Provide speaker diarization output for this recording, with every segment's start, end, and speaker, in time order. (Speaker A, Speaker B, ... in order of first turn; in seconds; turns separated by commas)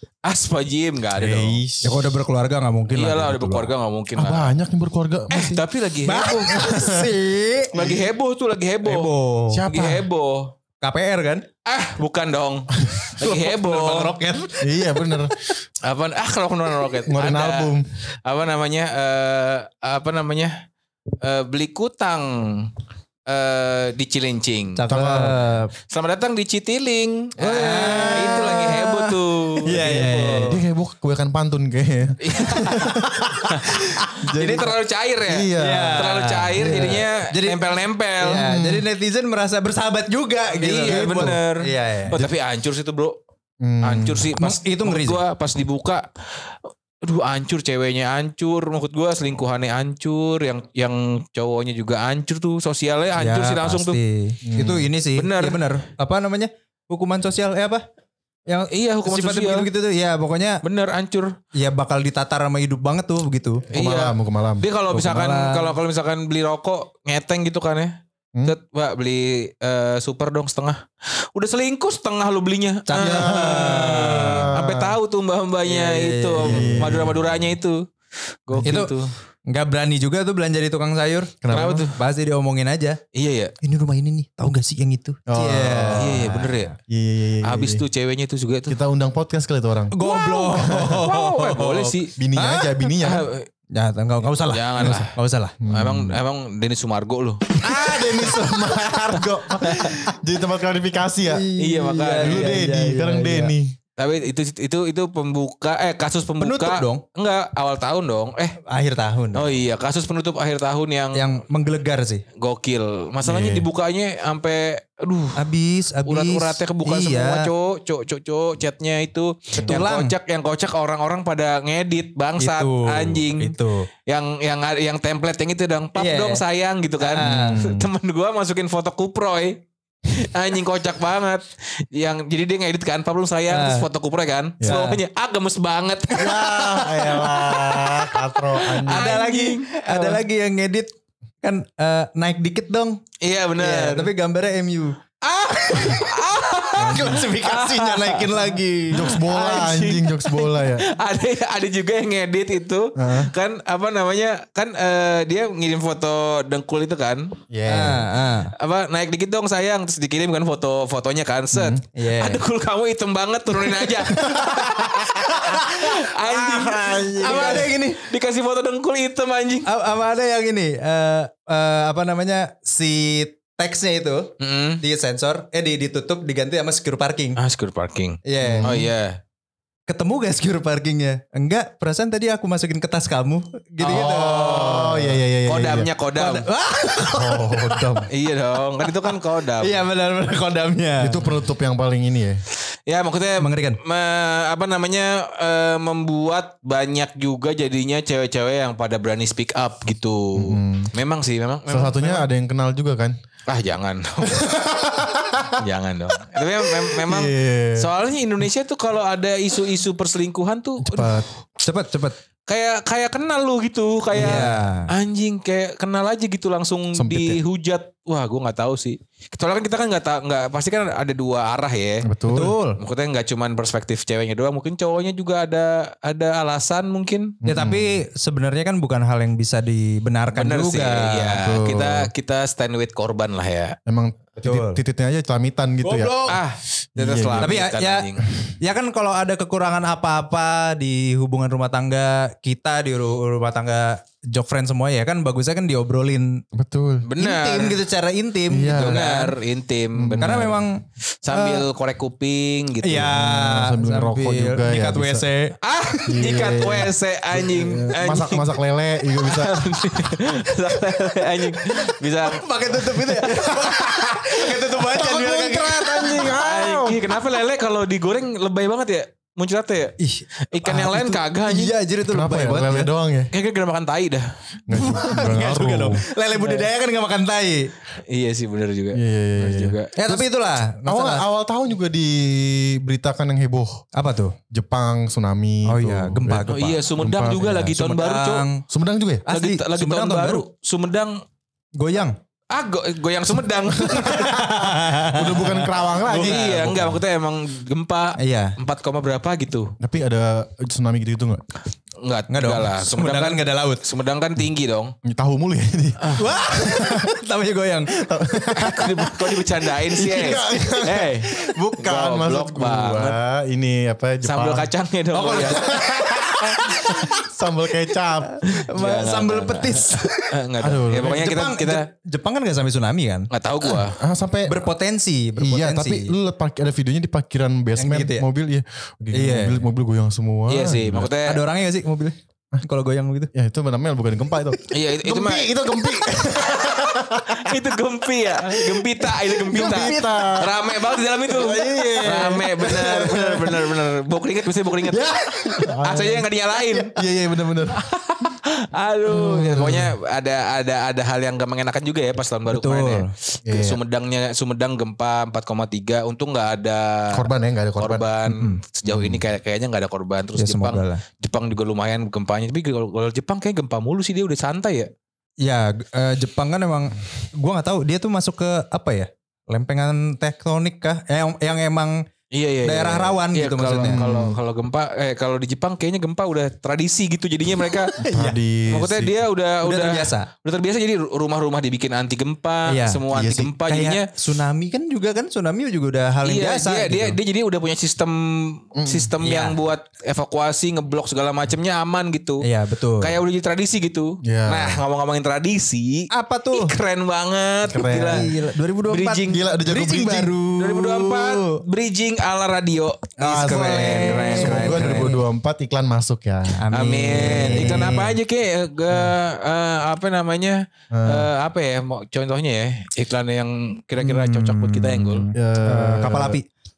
Speaker A: 0.2-1.6, Speaker B: 1.2-2.1, Speaker C: 1.8-3.7, Speaker A: 2.9-4.5, Speaker B: 4.2-5.6, Speaker C: 5.4-8.0, Speaker A: 5.4-6.5, Speaker B: 6.2-7.2, Speaker A: 7.7-9.1, Speaker C: 8.8-9.6, Speaker B: 9.5-10.1, Speaker A: 9.7-10.5, Speaker C: 10.8-11.4, Speaker A: 11.7-14.2, Speaker C: 13.2-15.2, Speaker B: 14.6-15.3, Speaker A: 15.8-20.6, Speaker B: 17.1-17.9, Speaker A: 21.2-22.7, Speaker A: 23.3-25.3, Speaker C: 24.8-25.7, Speaker B: 24.9-25.4, Speaker A: 25.9-30.6, Speaker B: 27.4-28.6, Speaker C: 27.5-30.6, Speaker B: 30.4-37.0, Speaker A: 32.2-38.5, Speaker C: 34.0-34.3, Speaker C: 35.6-37.6, Speaker C: 38.2-42.2, Speaker B: 38.4-38.9, Speaker A: 40.5-43.2, Speaker B: 40.9-41.4, Speaker B: 43.6-44.3, Speaker A: 43.8-46.1, Speaker C: 44.4-45.2, Speaker A: 47.0-54.0, Speaker C: 53.2-57.9, Speaker B: 54.4-54.9, Speaker A: 55.1-55.6, Speaker C: 58.5-60.6, Speaker A: 58.7-59.7, Speaker A: 60.6-61.4, Speaker C: 61.5-63.7, Speaker B: 63.7-64.7, Speaker A: 63.7-67.9, Speaker C: 64.9-65.8, Speaker A: 68.5-77.9, Speaker C: 72.9-74.5, Speaker B: 73.0-75.0, Speaker C: 75.7-77.1, Speaker B: 76.4-77.2, Speaker A: 78.5-79.1, Speaker B: 78.5-78.8, Speaker C: 78.7-78.9, Speaker C: 79.5-81.4, Speaker B: 81.4-81.9, Speaker A: 81.5-82.0, Speaker C: 81.9-83.0, Speaker A: 83.1-83.5, Speaker C: 83.6-86.8, Speaker B: 85.3-86.4, Speaker A: 85.9-86.7, Speaker B: 86.9-87.8, Speaker A: 87.4-88.8, Speaker B: 88.7-90.0, Speaker C: 89.9-92.8, Speaker A: 90.0-92.2, Speaker B: 90.5-91.0, Speaker B: 92.2-93.3, Speaker A: 93.0-93.5, Speaker C: 93.8-95.6, Speaker A: 94.5-95.1, Speaker B: 94.8-95.1, Speaker B: 95.6-96.2, Speaker A: 95.7-97.5, Speaker B: 97.6-101.5, Speaker C: 97.7-98.3, Speaker C: 101.3-103.5, Speaker A: 101.6-102.7, Speaker B: 102.2-103.8, Speaker A: 104.0-108.6, Speaker C: 106.4-107.0, Speaker C: 108.7-109.5, Speaker A: 109.3-111.3, Speaker C: 111.1-112.2, Speaker A: 112.4-115.5, Speaker B: 113.2-113.7, Speaker C: 115.3-117.5, Speaker A: 116.1-136.6, Speaker C: 119.6-120.1, Speaker C: 122.4-123.9, Speaker C: 126.0-126.4, Speaker C: 127.0-127.6, Speaker B: 127.2-127.9, Speaker C: 133.5-133.9, Speaker C: 134.6-135.0, Speaker B: 136.1-139.1, Speaker C: 136.4-137.7, Speaker A: 138.6-140.2, Speaker C: 138.9-140.9, Speaker C: 141.4-143.0, Speaker A: 143.2-144.1, Speaker C: 143.6-145.0, Speaker A: 145.2-148.5, Speaker C: 145.6-146.1, Speaker B: 146.8-147.3, Speaker C: 146.8-149.2, Speaker B: 148.9-150.8, Speaker A: 149.0-157.3, Speaker B: 153.0-153.3, Speaker B: 157.5-158.1, Speaker C: 157.7-158.5, Speaker A: 158.6-169.7, Speaker B: 161.5-161.8, Speaker C: 161.9-162.4, Speaker C: 163.8-166.0, Speaker B: 166.2-167.7, Speaker C: 167.2-168.0, Speaker C: 169.7-177.4, Speaker A: 174.4-174.8, Speaker A: 177.4-179.2, Speaker C: 178.3-178.8, Speaker B: 178.4-178.9, Speaker C: 179.9-185.1, Speaker A: 183.8-186.5, Speaker B: 183.9-185.9, Speaker C: 186.2-188.1, Speaker B: 187.0-188.1, Speaker A: 188.1-189.8, Speaker C: 189.6-191.2, Speaker B: 191.0-192.4, Speaker A: 192.9-202.3, Speaker C: 193.4-193.8, Speaker B: 200.3-200.9, Speaker B: 201.7-203.2, Speaker A: 203.5-204.6, Speaker B: 204.2-205.6, Speaker A: 205.6-211.2, Speaker B: 206.8-207.9, Speaker B: 210.8-211.3, Speaker C: 211.6-212.2, Speaker A: 212.5-222.1, Speaker C: 214.1-214.9, Speaker B: 217.0-217.4, Speaker B: 222.0-222.6, Speaker C: 222.3-222.8, Speaker A: 222.8-227.4, Speaker B: 227.4-228.0, Speaker C: 227.4-231.4, Speaker A: 230.3-233.8, Speaker B: 231.4-232.1, Speaker B: 233.9-236.3, Speaker C: 234.4-234.8, Speaker C: 235.8-236.4, Speaker A: 236.3-238.2, Speaker B: 237.0-237.6, Speaker C: 237.4-246.4, Speaker B: 246.5-247.1, Speaker A: 247.0-247.8, Speaker C: 247.2-249.3, Speaker B: 248.5-249.1, Speaker A: 248.7-250.5, Speaker B: 249.9-250.7, Speaker C: 250.2-251.7, Speaker A: 251.2-253.1, Speaker C: 252.8-256.0, Speaker B: 253.1-255.3, Speaker A: 255.6-258.5, Speaker B: 256.1-259.9, Speaker A: 259.2-264.6, Speaker C: 261.7-266.3, Speaker B: 263.3-263.7, Speaker B: 264.9-267.1, Speaker A: 265.8-271.8, Speaker C: 270.0-272.9, Speaker B: 272.0-273.3, Speaker A: 273.3-274.3, Speaker B: 274.7-276.1, Speaker C: 274.7-277.7, Speaker A: 276.4-276.7, Speaker A: 278.1-279.9, Speaker B: 278.9-280.2, Speaker C: 280.0-281.2, Speaker B: 280.8-283.9, Speaker C: 283.9-284.4, Speaker B: 284.5-287.8, Speaker C: 285.7-286.8, Speaker A: 286.5-288.5, Speaker C: 287.7-288.6, Speaker B: 288.7-289.3, Speaker C: 289.3-290.4, Speaker A: 289.3-291.2, Speaker C: 291.8-292.2, Speaker A: 292.5-294.5, Speaker B: 293.8-297.0, Speaker C: 293.9-296.4, Speaker A: 296.0-299.7, Speaker C: 298.2-298.6, Speaker B: 299.8-301.4, Speaker A: 302.0-304.9, Speaker C: 302.3-303.8, Speaker B: 305.1-307.1, Speaker A: 306.0-306.3, Speaker C: 306.1-309.1, Speaker B: 307.9-309.2, Speaker A: 308.6-313.2, Speaker C: 309.9-310.4, Speaker B: 310.0-314.7, Speaker A: 314.2-315.7, Speaker C: 315.1-317.2, Speaker B: 315.5-318.4, Speaker C: 318.3-320.3, Speaker A: 318.6-321.8, Speaker B: 320.6-321.3, Speaker C: 321.0-323.8, Speaker A: 323.3-324.0, Speaker B: 324.0-324.6, Speaker C: 324.5-326.1, Speaker B: 325.4-331.1, Speaker C: 327.8-328.3, Speaker C: 329.1-329.6, Speaker A: 330.5-331.4, Speaker C: 331.2-333.3, Speaker B: 333.3-337.6, Speaker A: 334.7-335.5, Speaker A: 337.3-345.1, Speaker B: 338.9-340.6, Speaker C: 339.5-340.4, Speaker B: 341.3-343.7, Speaker C: 341.6-342.4, Speaker C: 344.9-345.8, Speaker B: 345.6-346.3, Speaker A: 345.8-346.9, Speaker B: 346.9-347.8, Speaker A: 347.7-364.9, Speaker B: 349.2-349.9, Speaker C: 349.3-349.6, Speaker C: 352.5-353.1, Speaker B: 353.4-353.8, Speaker B: 357.1-358.1, Speaker C: 358.3-358.6, Speaker B: 358.9-359.2, Speaker C: 360.4-361.0, Speaker C: 365.4-372.1, Speaker A: 372.3-378.0, Speaker C: 372.6-374.0, Speaker B: 373.8-374.4, Speaker C: 377.9-378.4, Speaker B: 378.0-379.2, Speaker A: 378.7-384.1, Speaker C: 379.6-380.3, Speaker C: 382.7-383.1, Speaker B: 383.1-383.5, Speaker C: 383.6-387.2, Speaker A: 386.2-392.4, Speaker B: 388.8-389.1, Speaker C: 389.2-389.6, Speaker C: 392.4-393.2, Speaker A: 393.0-398.3, Speaker B: 394.2-394.8, Speaker C: 396.1-396.7, Speaker B: 397.7-398.3, Speaker C: 397.9-401.6, Speaker A: 398.9-399.4, Speaker B: 399.2-400.4, Speaker A: 400.6-405.2, Speaker B: 403.2-408.1, Speaker C: 403.2-405.2, Speaker C: 406.6-408.1, Speaker A: 406.7-415.3, Speaker B: 410.9-411.3, Speaker C: 414.0-416.5, Speaker B: 415.3-416.4